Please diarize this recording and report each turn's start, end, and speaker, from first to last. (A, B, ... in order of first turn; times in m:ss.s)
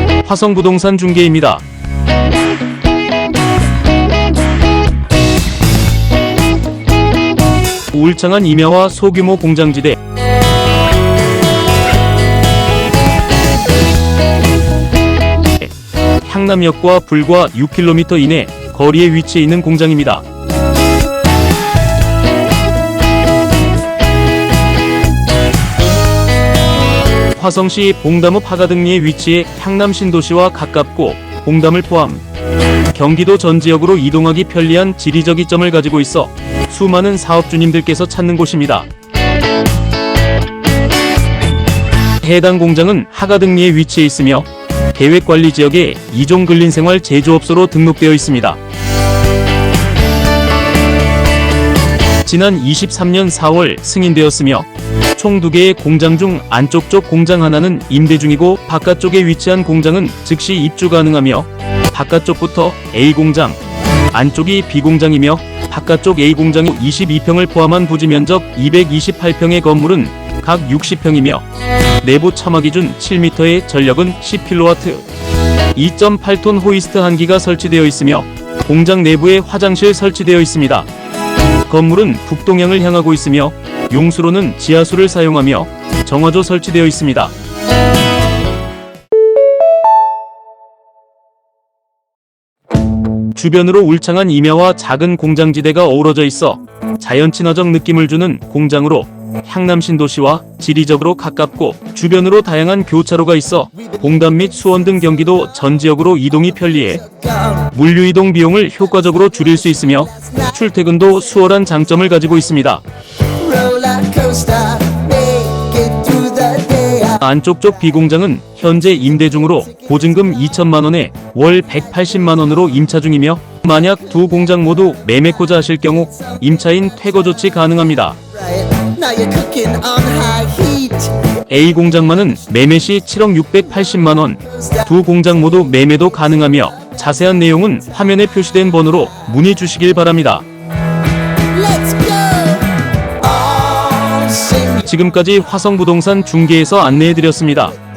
0:00.2-0:01.6 A
0:07.9-0:10.0 A
0:16.2-0:20.2 A
0:27.3-0:32.2 A
0:32.9-0:38.9 A
0:42.2-0:48.6 A
0:52.2-1:03.6 A
1:04.1-1:15.1 A
1:15.7-1:20.9 A
1:21.7-1:27.3 A
1:33.3-1:52.8 A
1:53.4-1:57.0 B
1:57.0-2:08.2 A
2:08.6-2:11.2 B
2:11.4-2:20.4 A
2:21.5-2:24.7 B
2:24.7-2:27.8 A